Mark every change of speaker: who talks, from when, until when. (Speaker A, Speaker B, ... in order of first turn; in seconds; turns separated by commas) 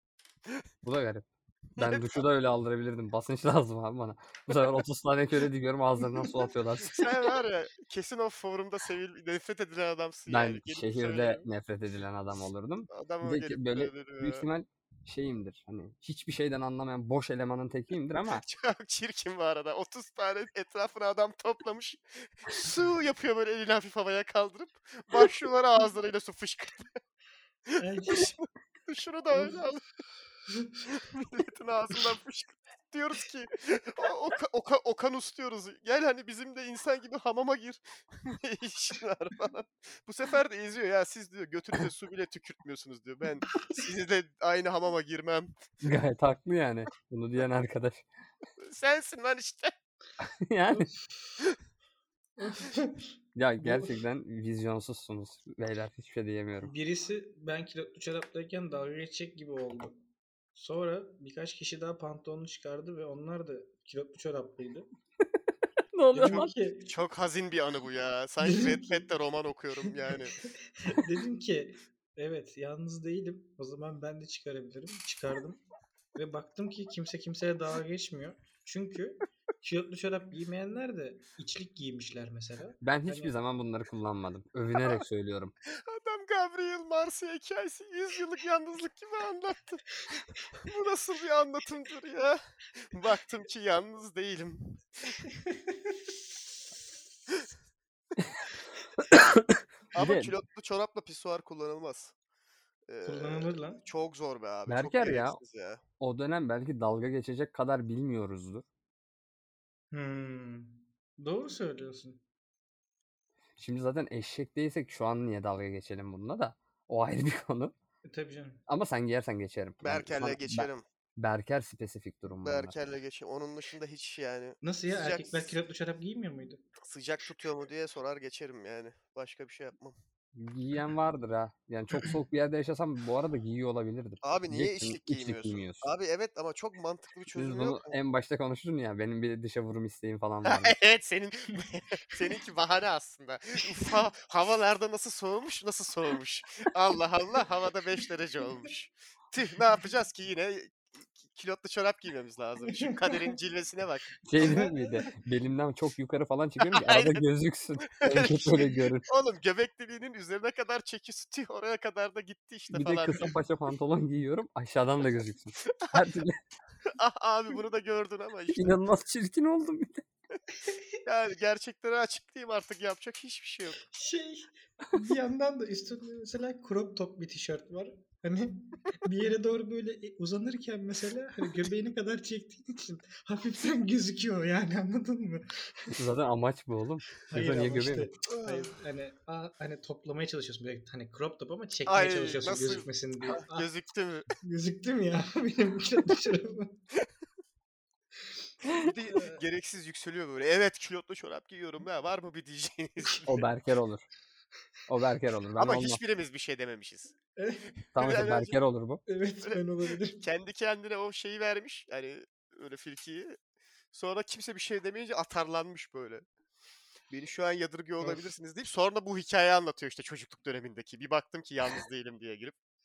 Speaker A: 0.8-7.1, Speaker B: 1.8-2.1, Speaker B: 6.9-11.4, Speaker A: 10.3-18.4, Speaker B: 12.9-14.5, Speaker B: 18.3-26.9, Speaker B: 27.7-29.8, Speaker C: 27.8-28.3, Speaker C: 30.5-30.8, Speaker B: 30.9-45.5, Speaker A: 45.8-48.0, Speaker B: 48.6-49.7, Speaker A: 50.2-50.9, Speaker C: 50.7-51.3, Speaker C: 52.4-53.1, Speaker A: 53.4-56.7, Speaker C: 53.6-53.9, Speaker C: 56.6-60.0, Speaker C: 60.5-64.9, Speaker A: 65.9-66.5, Speaker C: 66.1-66.9, Speaker B: 66.2-70.4, Speaker C: 68.4-69.0, Speaker C: 70.4-75.6, Speaker C: 76.2-83.3, Speaker A: 82.8-85.5, Speaker B: 85.7-90.0, Speaker B: 90.6-95.2, Speaker C: 95.5-95.9, Speaker A: 99.0-100.3, Speaker B: 99.9-102.1, Speaker B: 102.9-105.8, Speaker C: 103.0-103.8, Speaker A: 104.7-105.4, Speaker A: 106.0-108.6, Speaker C: 109.9-112.2, Speaker A: 113.6-117.7, Speaker C: 118.1-118.6, Speaker A: 118.7-122.8, Speaker B: 119.8-120.8, Speaker B: 122.4-125.5, Speaker C: 124.6-126.6, Speaker B: 126.8-130.0, Speaker A: 130.3-135.9, Speaker B: 134.2-137.9, Speaker A: 137.3-140.8, Speaker B: 140.4-154.1, Speaker C: 152.7-153.2, Speaker A: 154.3-159.1, Speaker C: 154.4-155.1, Speaker B: 156.6-157.2, Speaker B: 157.9-163.3, Speaker A: 162.7-166.4, Speaker B: 165.8-166.1, Speaker B: 166.9-168.7, Speaker A: 168.5-170.1, Speaker B: 171.0-173.8, Speaker C: 173.9-186.0, Speaker A: 185.9-188.1, Speaker C: 187.3-193.7, Speaker B: 188.3-188.7, Speaker B: 191.9-194.3, Speaker C: 194.4-196.8, Speaker B: 198.8-203.4, Speaker C: 199.1-199.4, Speaker A: 203.3-204.1, Speaker A: 204.9-206.0, Speaker B: 205.6-207.2, Speaker C: 207.4-207.7, Speaker B: 207.9-208.6, Speaker A: 207.9-209.0, Speaker C: 209.1-210.2, Speaker B: 210.2-213.4, Speaker B: 213.9-216.2, Speaker B: 217.1-222.6, Speaker C: 218.0-218.3